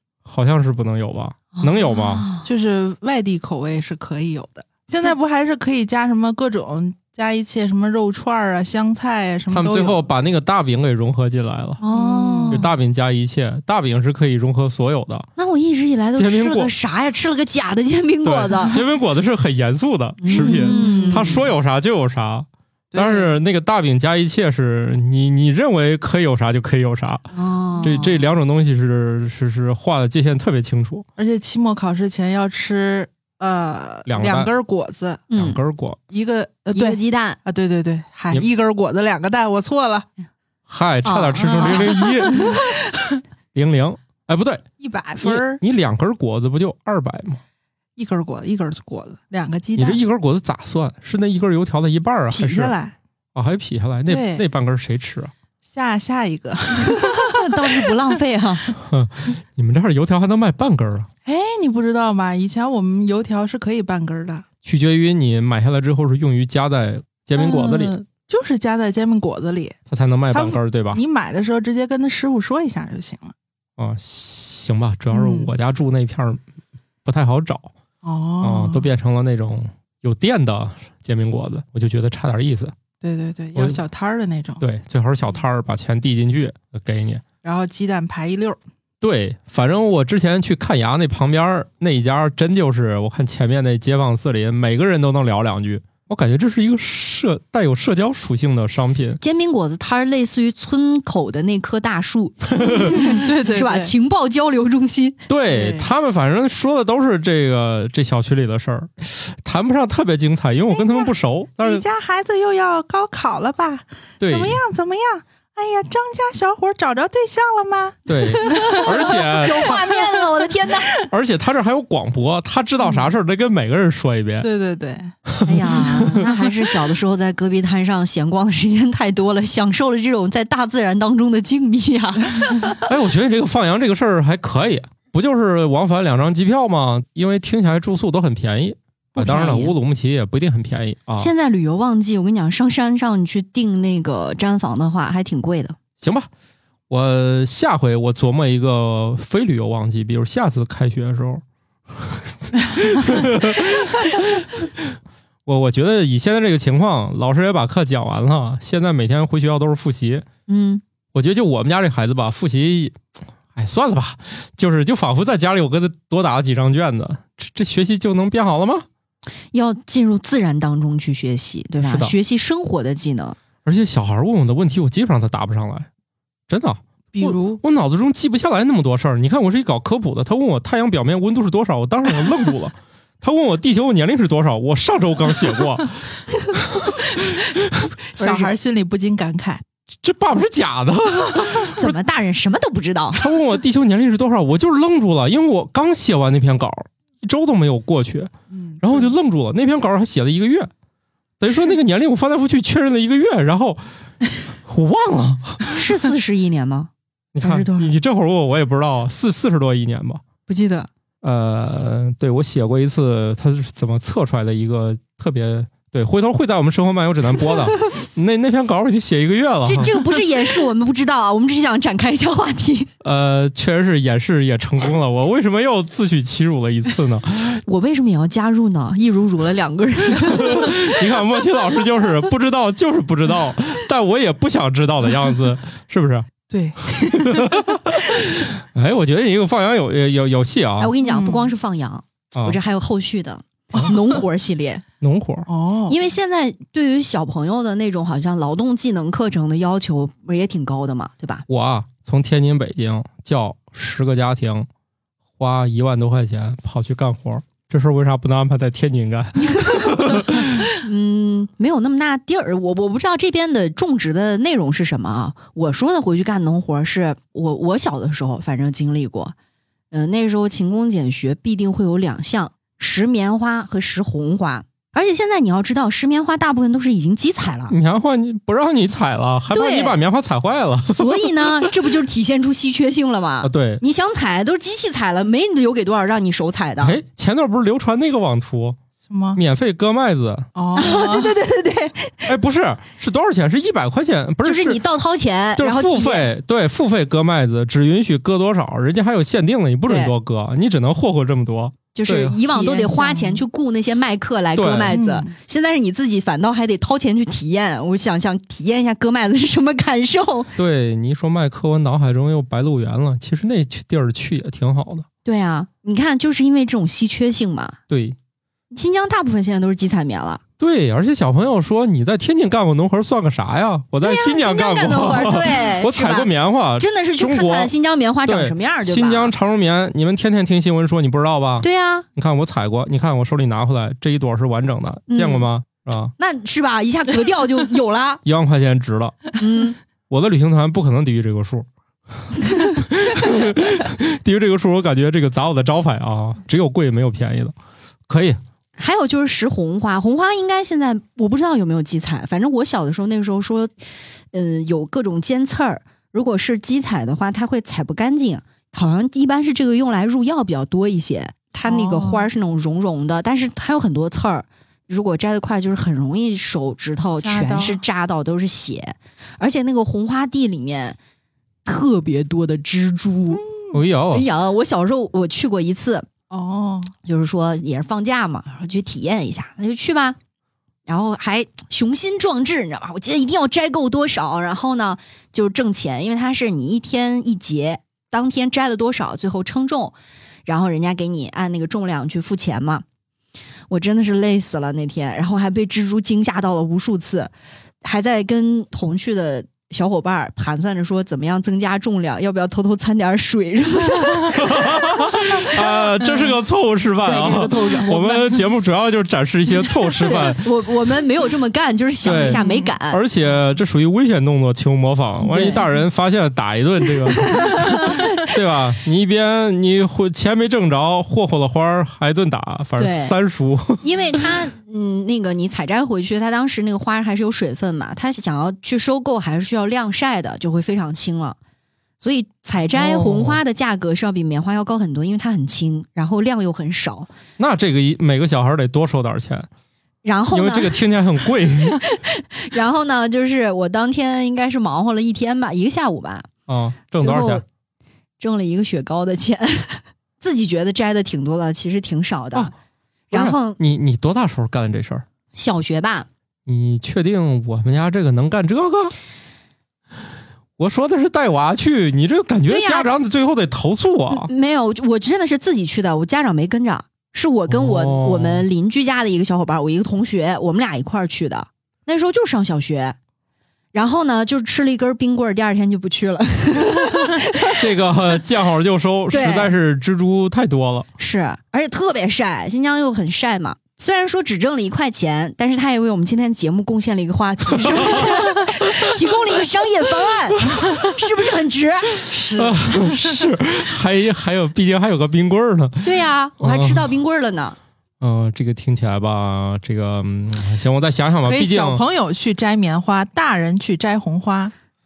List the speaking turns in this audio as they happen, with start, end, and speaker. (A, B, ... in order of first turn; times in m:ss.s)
0:00.2-0:02.2 A
0:01.6-0:02.5 B
0:02.4-0:10.1 C
0:09.5-0:11.8 A
0:11.8-0:12.7 B
0:11.9-0:12.6 C
0:12.5-0:15.3 A
0:15.4-0:18.8 B
0:16.2-0:16.7 A
0:18.2-0:27.3 A
0:20.2-0:21.4 B
0:20.3-0:21.4 C
0:22.9-0:23.3 C
0:27.3-0:28.1 B
0:27.7-0:28.1 C
0:27.8-0:31.1 A
0:31.2-0:35.2 C
0:34.0-0:34.5 A
0:35.3-0:35.6 B
0:35.3-0:36.0 A
0:36.1-0:40.1 C
0:36.7-0:37.4 B
0:40.7-0:42.6 A
0:41.0-0:42.6 B
0:41.6-0:43.2 C
0:43.5-0:44.6 A
0:44.8-0:45.6 C
0:45.2-0:47.4 A
0:48.0-0:50.0 C
0:49.8-0:52.7 A
0:52.3-0:52.9 C
0:53.3-0:55.3 A
0:54.1-0:54.4 C
0:55.6-0:57.9 C
0:56.8-0:58.7 B
0:58.8-1:01.1 A
1:01.2-1:04.4 C
1:04.6-1:08.0 A
1:07.4-1:09.8 C
1:09.9-1:11.0 A
1:10.3-1:13.3 C
1:13.8-1:16.4 A
1:15.1-1:15.5 C
1:17.0-1:17.7 A
1:18.0-1:18.9 C
1:18.4-1:22.7 A
1:23.0-1:24.6 C
1:23.6-1:23.8 A
1:24.6-1:27.2 A
1:27.4-1:28.6 C
1:29.0-1:39.2 A
1:39.2-1:45.2 B
1:42.5-1:43.0 A
1:42.7-1:43.9 C
1:45.3-1:51.8 A
1:45.5-1:45.9 C
1:50.7-2:00.7 C
1:54.2-1:54.6 A
1:58.1-1:59.8 A
1:58.4-2:00.9 B
2:01.0-2:04.5 A
2:02.8-2:03.1 C
2:04.4-2:05.1 C
2:05.3-2:06.3 A
2:05.4-2:12.8 B
2:12.8-2:21.3 A
2:19.2-2:19.7 B
2:21.2-2:25.8 B
2:26.0-2:26.3 A
2:26.9-2:31.4 A
2:32.0-2:34.9 A
2:35.4-2:40.2 A
2:40.5-2:40.8 B
2:41.1-2:43.0 A
2:43.5-2:48.8 A
2:49.5-2:53.4 B
2:51.8-2:52.1 A
2:53.6-2:55.9 A
2:56.5-3:06.0 A
2:57.1-2:57.6 C
3:06.5-3:07.9 A
3:08.1-3:09.6 C
3:08.2-3:08.5 B
3:10.0-3:11.9 A
3:11.8-3:13.2 B
3:13.1-3:20.7 A
3:18.5-3:19.1 C
3:21.4-3:23.8 A
3:24.6-3:25.7 A
3:25.7-3:26.9 B
3:27.3-3:30.2 A
3:27.4-3:27.9 B
3:30.5-3:30.9 B
3:31.2-3:40.0 A
3:39.6-3:42.9 B
3:43.0-3:47.6 A
3:47.6-3:50.9 B
3:50.2-3:56.3 A
3:56.5-3:57.6 C
3:56.9-4:00.9 A
4:00.8-4:04.8 B
4:01.0-4:01.5 C
4:05.0-4:05.5 A
4:05.5-4:06.0 C
4:05.9-4:11.4 B
4:11.5-4:14.7 A
4:15.4-4:20.7 A
4:19.6-4:29.3 B
4:29.9-4:37.7 B
4:37.7-4:41.7 A
4:39.5-4:40.0 B
4:40.9-4:47.0 B
4:43.4-4:43.8 A
4:46.8-4:48.8 A
4:49.1-4:49.4 C
4:49.3-4:50.5 A
4:50.5-4:51.4 C
4:50.7-4:52.3 B
4:52.2-4:54.8 A
4:54.4-4:56.3 B
4:55.6-5:02.4 A
4:59.9-5:00.1 B
5:01.9-5:10.5 B
5:02.5-5:03.4 C
5:04.5-5:05.0 A
5:04.9-5:05.3 C
5:10.6-5:15.0 A
5:15.2-5:17.8 B
5:17.9-5:18.2 A
5:18.7-5:20.4 B
5:20.6-5:27.7 A
5:24.0-5:29.3 B
5:28.2-5:36.1 A
5:31.6-5:32.0 B
5:35.1-5:35.5 B
5:36.2-5:38.2 B
5:38.2-5:39.3 A
5:39.4-5:39.8 B
5:40.1-5:41.7 A
5:42.3-5:47.5 A
5:48.1-5:48.4 A
5:48.8-5:53.7 B
5:54.3-6:11.0 B
6:01.6-6:02.3 C
6:07.2-6:07.8 C
6:11.6-6:13.4 B
6:13.3-6:13.8 C
6:13.7-6:14.2 A
6:14.1-6:16.1 B
6:16.3-6:16.9 C
6:17.0-6:20.2 B
6:20.9-6:29.9 B
6:30.4-6:32.8 B
6:33.7-6:37.3 B
6:37.8-6:44.8 B
6:44.3-6:50.5 A
6:47.0-6:48.4 B
6:50.0-6:53.0 B
6:52.0-7:03.8 A
6:52.3-6:52.7 C
6:55.2-6:55.7 B
6:57.1-6:58.2 B
7:02.8-7:03.1 B
7:03.8-7:11.4 B
7:12.0-7:17.1 B
7:12.7-7:13.4 A
7:17.4-7:19.5 A
7:20.0-7:20.8 B
7:20.3-7:21.8 A
7:21.8-7:26.3 B
7:26.5-7:27.4 A
7:27.0-7:27.4 B
7:28.2-7:32.5 B
7:33.1-7:33.6 B
7:33.1-7:35.0 A
7:35.3-7:36.1 B
7:36.5-7:38.9 A
7:40.6-7:44.3 A
7:42.5-7:42.9 B
7:44.1-7:53.0 B
7:47.5-7:48.4 A
7:53.7-7:57.6 B
7:57.4-8:00.9 A
7:59.1-7:59.5 B
8:01.0-8:12.1 B
8:07.6-8:08.9 A
8:10.5-8:10.9 A
8:12.1-8:13.2 C
8:12.3-8:16.9 A
8:15.8-8:17.6 B
8:18.0-8:21.8 A
8:21.2-8:24.5 C